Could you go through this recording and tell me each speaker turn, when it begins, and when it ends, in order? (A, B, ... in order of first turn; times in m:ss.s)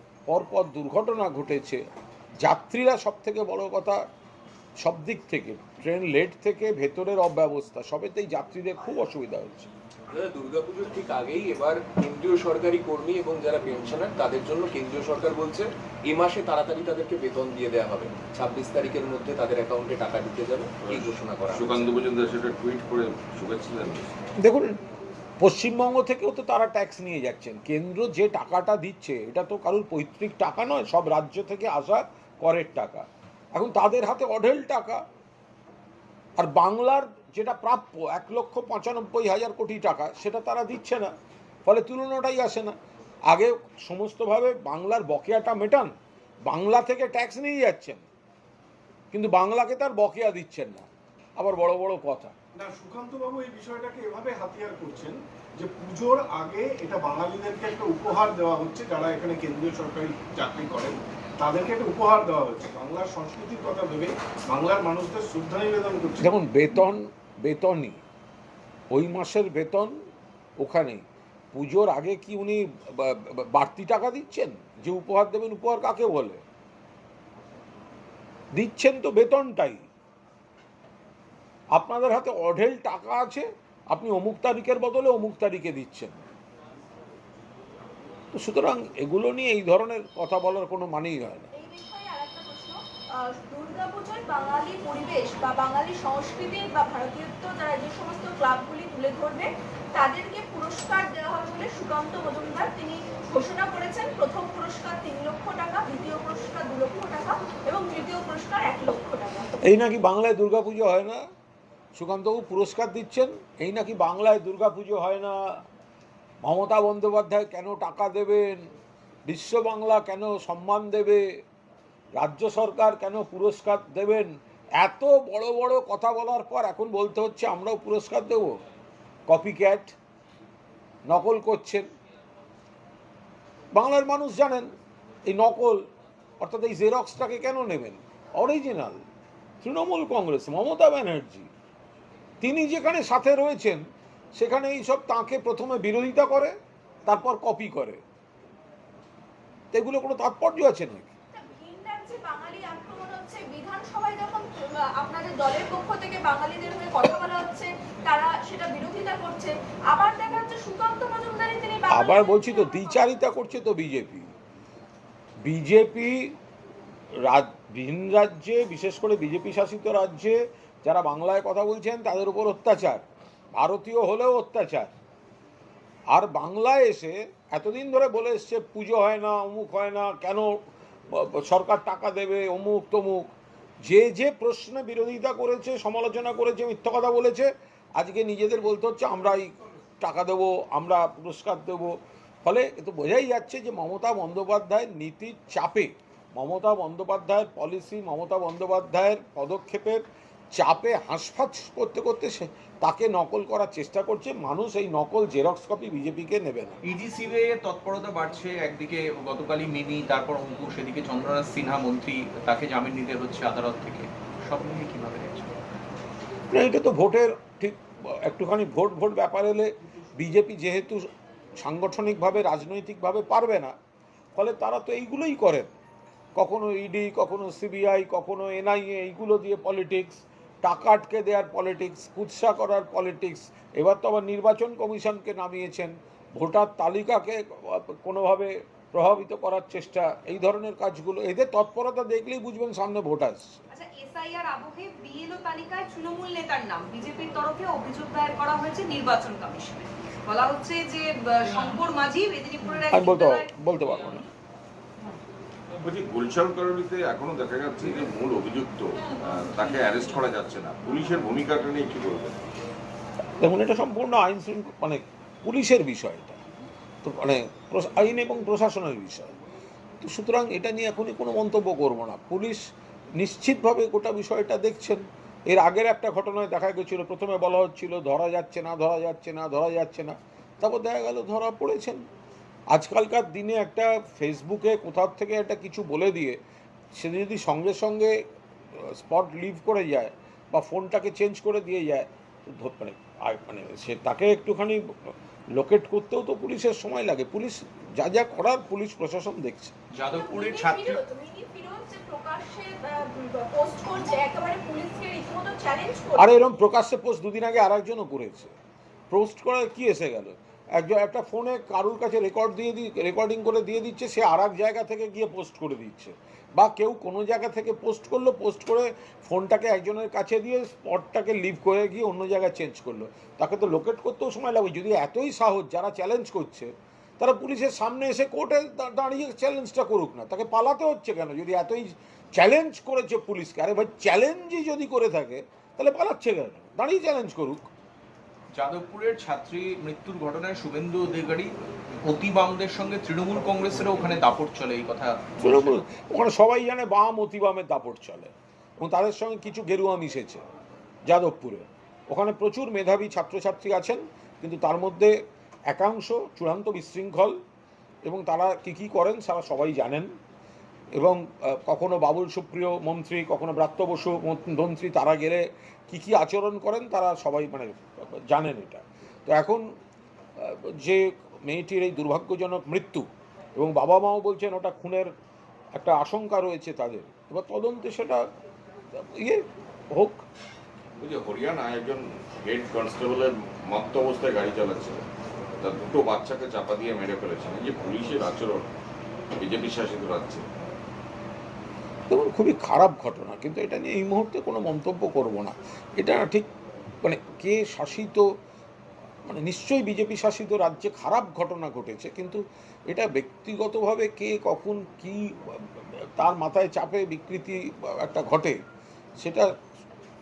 0:00.3-0:01.8 A
0:02.4-0:04.0 A
0:04.8-0:09.7 A
0:10.1-0:22.0 B
0:20.8-0:24.1 C
0:24.4-0:24.8 A
0:25.4-0:35.0 A
0:36.4-0:41.1 A
0:41.6-0:42.8 A
0:43.3-0:46.0 A
0:46.5-0:48.1 A
0:49.1-0:52.3 A
0:52.5-1:06.3 D
1:06.2-1:08.0 A
1:08.9-1:10.0 A
1:10.6-1:16.4 A
1:18.5-1:19.9 A
1:21.7-1:26.2 A
1:28.3-1:31.5 A
1:31.5-1:49.5 E
1:49.6-1:51.2 A
1:52.0-1:55.4 A
1:56.4-1:58.7 A
1:59.3-2:01.3 A
2:02.2-2:08.6 A
2:09.3-2:10.0 A
2:11.1-2:11.8 A
2:13.7-2:14.7 A
2:15.3-2:15.8 A
2:16.4-2:19.0 A
2:19.6-2:21.5 A
2:22.4-2:23.8 A
2:24.4-2:26.6 A
2:27.1-2:28.0 A
2:29.7-2:31.1 A
2:31.3-2:43.1 E
2:41.9-2:44.3 A
2:45.4-2:46.4 A
2:47.2-2:54.9 A
2:56.1-3:00.5 A
3:01.1-3:03.3 A
3:03.8-3:26.8 A
3:26.8-3:35.5 F
3:36.5-3:41.1 A
3:41.6-3:43.8 A
3:44.4-3:45.7 A
3:46.4-4:03.6 A
4:03.7-4:13.5 G
4:12.9-4:14.2 A
4:15.8-4:22.4 C
4:23.4-4:26.4 A
4:27.0-4:29.3 A
4:30.0-4:32.6 A
4:33.2-4:42.0 A
4:42.7-4:46.4 A
4:47.0-4:48.1 A
4:48.7-4:59.8 A
4:59.9-5:01.0 F
5:00.1-5:06.3 E
5:06.2-5:08.6 A
5:09.1-5:37.7 A
5:38.5-5:41.5 F
5:42.0-5:45.8 F
5:45.4-5:50.4 A
5:51.0-5:55.2 A
5:55.7-5:57.4 A
5:58.0-6:00.1 A
6:01.0-6:09.7 A
6:10.4-6:15.1 A
6:15.8-6:18.2 A
6:18.9-6:20.2 A
6:21.0-6:25.0 C
6:25.6-6:28.7 C
6:29.4-6:30.4 C
6:32.1-6:36.5 A
6:37.0-6:38.2 A
6:39.2-6:48.6 A
6:49.2-6:49.5 A